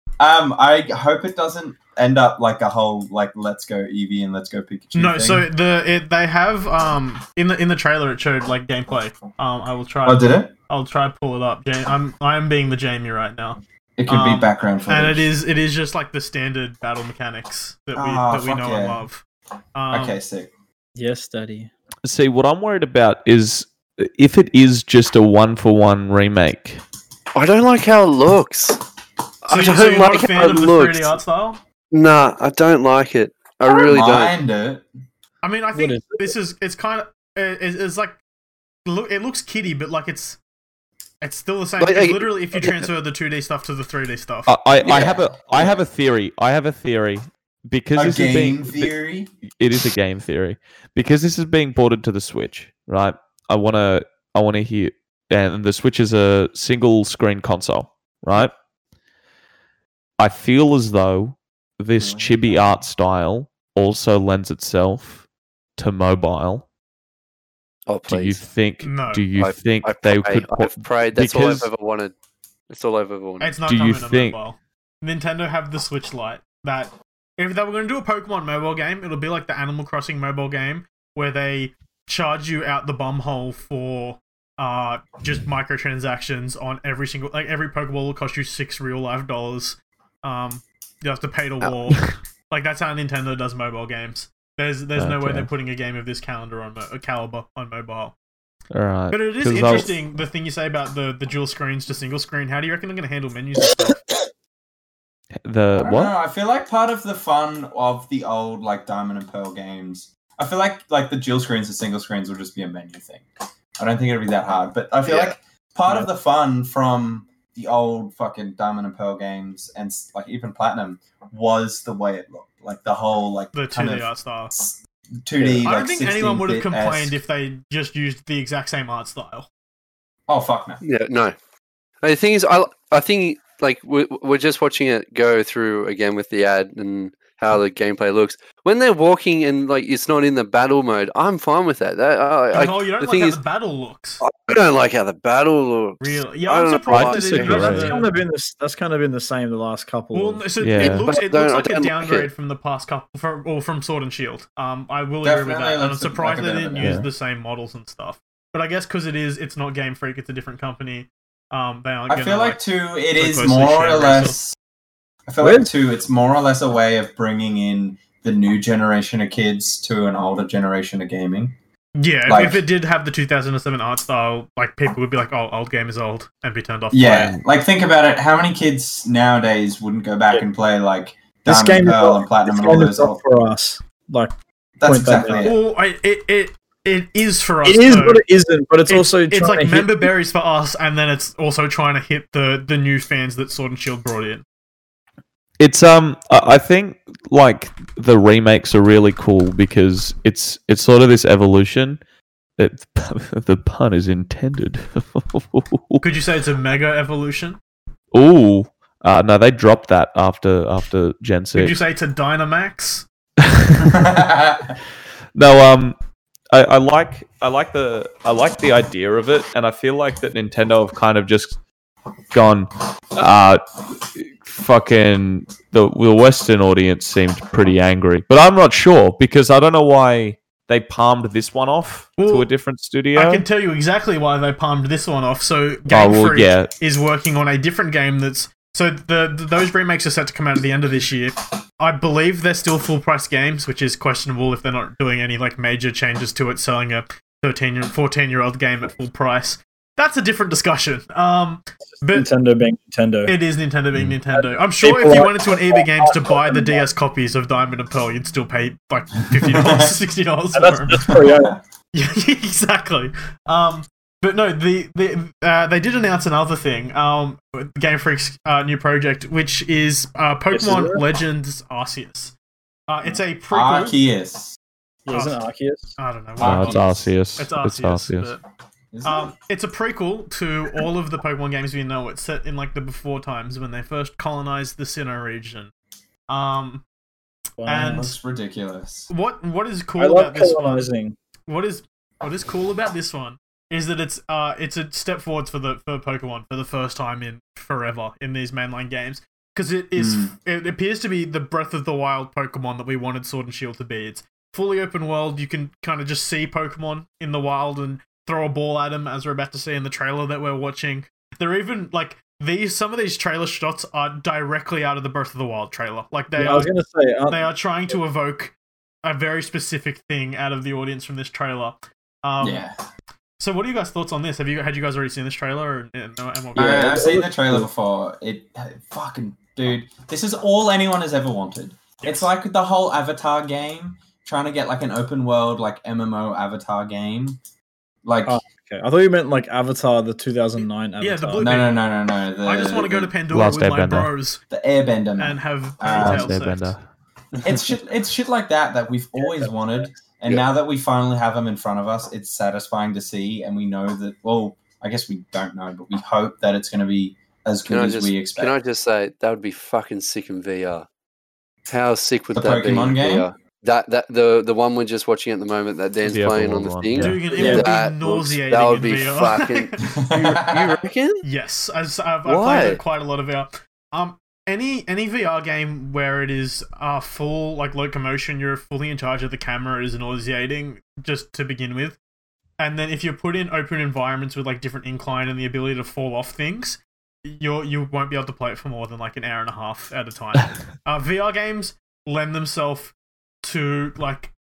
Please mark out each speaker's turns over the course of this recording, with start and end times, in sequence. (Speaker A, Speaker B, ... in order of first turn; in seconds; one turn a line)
Speaker A: 0.2-5.5
Speaker B: 4.9-19.2
Speaker A: 10.1-10.5
Speaker A: 14.0-15.3
Speaker A: 17.9-19.0
Speaker B: 19.8-20.2
Speaker A: 19.9-20.5
Speaker C: 21.0-21.7
Speaker D: 22.0-26.8
Speaker E: 27.3-28.8
Speaker E: 29.4-31.2
Speaker B: 29.5-31.6
Speaker E: 31.9-34.4
Speaker A: 33.9-34.9
Speaker B: 35.4-38.2
Speaker C: 35.7-36.4
Speaker B: 38.9-40.4
Speaker B: 41.2-44.5
Speaker E: 41.8-42.9
Speaker D: 44.5-48.9
Speaker A: 44.8-45.8
Speaker A: 48.0-49.3
Speaker D: 49.5-58.5
Speaker D: 60.2-65.2
Speaker D: 65.8-66.7
Speaker E: 67.9-68.4
Speaker D: 68.1-71.7
Speaker B: 68.8-69.3
Speaker E: 69.4-72.1
Speaker E: 72.7-73.6
Speaker B: 73.4-98.2
Speaker D: 73.7-74.4
Speaker D: 95.0-95.5
Speaker D: 98.7-100.0
Speaker B: 99.1-104.0
Speaker D: 105.4-106.1
Speaker A: 105.8-113.2
Speaker A: 113.8-127.2
Speaker B: 123.5-124.5
Speaker C: 125.4-125.7
Speaker B: 125.6-129.5
Speaker A: 130.3-130.8
Speaker E: 130.8-131.3
Speaker E: 132.0-143.4
Speaker B: 142.5-144.2
Speaker E: 144.2-147.8
Speaker B: 146.0-148.1
Speaker D: 146.9-147.9
Speaker C: 147.5-150.4
Speaker B: 150.1-164.4
Speaker D: 150.6-151.1
Speaker E: 150.8-152.3
Speaker A: 155.2-157.0
Speaker D: 156.8-157.1
Speaker A: 162.1-164.6
Speaker A: 165.3-171.6
Speaker C: 165.4-165.7
Speaker B: 172.0-177.4
Speaker A: 172.3-172.6
Speaker A: 176.9-183.2
Speaker C: 181.5-184.3
Speaker A: 184.8-185.6
Speaker C: 184.9-185.5
Speaker B: 185.4-188.2
Speaker C: 187.7-190.1
Speaker B: 188.9-194.4
Speaker D: 195.6-202.0
Speaker D: 202.6-206.0
Speaker B: 206.0-207.6
Speaker D: 208.1-211.8
Speaker B: 211.6-213.1
Speaker D: 213.4-214.3
Speaker A: 213.8-214.8
Speaker D: 215.3-216.0
Speaker D: 216.5-221.6
Speaker D: 222.3-233.5
Speaker B: 232.2-232.5
Speaker B: 233.1-252.3
Speaker D: 235.9-236.7
Speaker C: 252.1-253.4
Speaker B: 253.3-261.2
Speaker C: 254.3-256.8
Speaker A: 259.4-260.0
Speaker C: 260.5-261.6
Speaker A: 261.3-261.6
Speaker B: 261.9-272.3
Speaker C: 270.5-271.0
Speaker B: 272.9-274.0
Speaker A: 273.5-274.6
Speaker C: 275.1-276.0
Speaker B: 275.1-275.4
Speaker B: 276.0-278.4
Speaker D: 276.4-278.3
Speaker A: 276.4-276.8
Speaker A: 278.9-279.3
Speaker B: 279.0-285.7
Speaker B: 286.3-286.8
Speaker C: 287.6-288.1
Speaker B: 287.7-288.2
Speaker A: 287.8-289.1
Speaker B: 289.1-290.9
Speaker C: 290.0-291.2
Speaker B: 291.5-316.7
Speaker A: 300.0-300.3
Speaker C: 316.4-317.9
Speaker B: 317.3-322.6
Speaker A: 322.4-322.7
Speaker B: 323.4-327.0
Speaker C: 326.6-327.7
Speaker A: 326.6-337.4
Speaker B: 332.0-332.3
Speaker A: 338.0-338.4
Speaker C: 338.3-341.7
Speaker B: 341.0-341.8
Speaker A: 341.4-343.1
Speaker B: 342.4-344.4
Speaker D: 343.3-344.1
Speaker A: 344.5-346.4
Speaker B: 345.2-346.7
Speaker D: 345.9-346.8
Speaker A: 347.4-358.6
Speaker C: 349.2-349.5
Speaker E: 357.7-360.9
Speaker E: 361.7-371.2
Speaker A: 362.3-363.3
Speaker D: 366.0-367.2
Speaker B: 366.9-369.8
Speaker C: 367.3-367.7
Speaker A: 367.4-367.6
Speaker A: 369.8-370.7
Speaker B: 371.2-382.0
Speaker E: 372.2-372.8
Speaker B: 382.6-394.3